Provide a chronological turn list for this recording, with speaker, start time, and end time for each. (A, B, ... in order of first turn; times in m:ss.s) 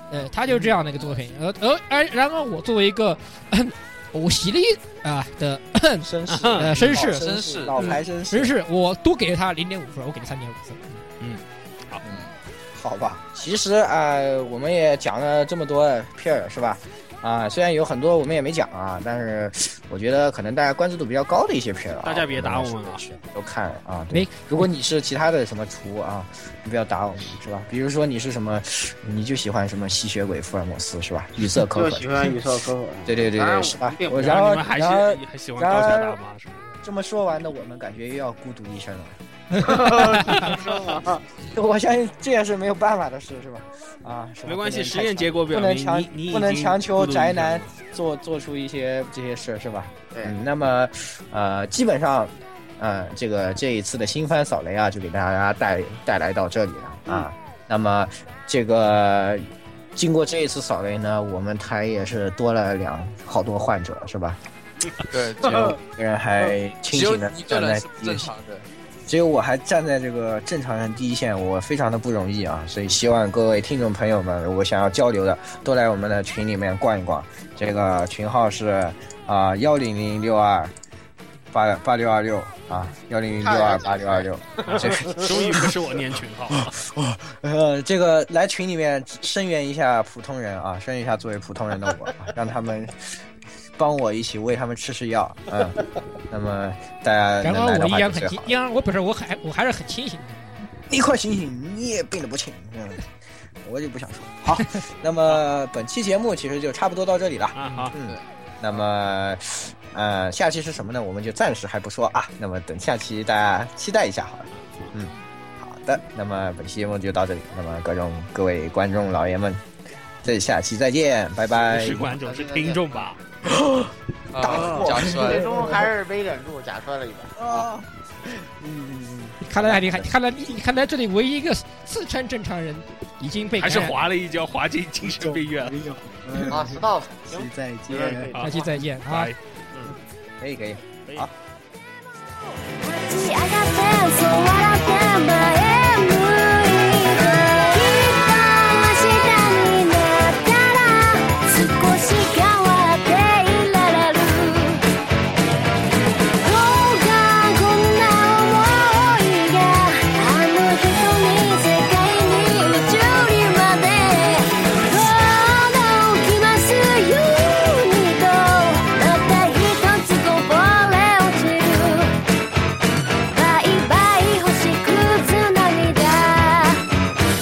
0:00.1-0:07.2 A
0:06.0-0:08.5 B
0:06.3-0:07.0 C
0:07.2-0:07.9 D
0:08.3-0:11.0 A
0:11.2-0:12.0 C
0:12.0-0:32.4 B
0:22.0-0:23.0 C
0:24.1-0:24.4 A
0:31.7-0:34.3 E
0:33.0-0:36.2 B
0:34.1-0:36.6 C
0:36.8-0:40.6 B
0:39.6-0:41.2 E
0:41.4-1:04.4 B
0:44.4-0:47.7 C
1:05.1-1:05.7 D
1:05.4-1:08.3 B
1:06.9-1:08.6 D
1:09.1-1:20.7 B
1:21.5-1:25.8 B
1:23.4-1:25.6 E
1:24.8-1:26.9 C
1:26.5-1:33.2 B
1:33.8-1:38.5 B
1:37.4-1:40.6 A
1:40.9-1:43.1 B
1:43.6-1:59.6 B
1:47.6-1:47.9 C
2:00.2-2:02.2 B
2:01.6-2:03.2 C
2:02.1-2:03.1 E
2:03.5-2:05.9 B
2:04.3-2:05.5 D
2:04.4-2:07.7 E
2:07.4-2:10.6 B
2:09.4-2:14.0 A
2:13.6-2:15.8 C
2:15.0-2:18.3 B
2:16.5-2:18.7 E
2:18.3-2:19.4 C
2:18.4-2:19.3 A
2:19.9-2:21.3 B
2:22.8-2:34.9 F
2:36.4-2:52.2 F
2:53.3-2:56.8 F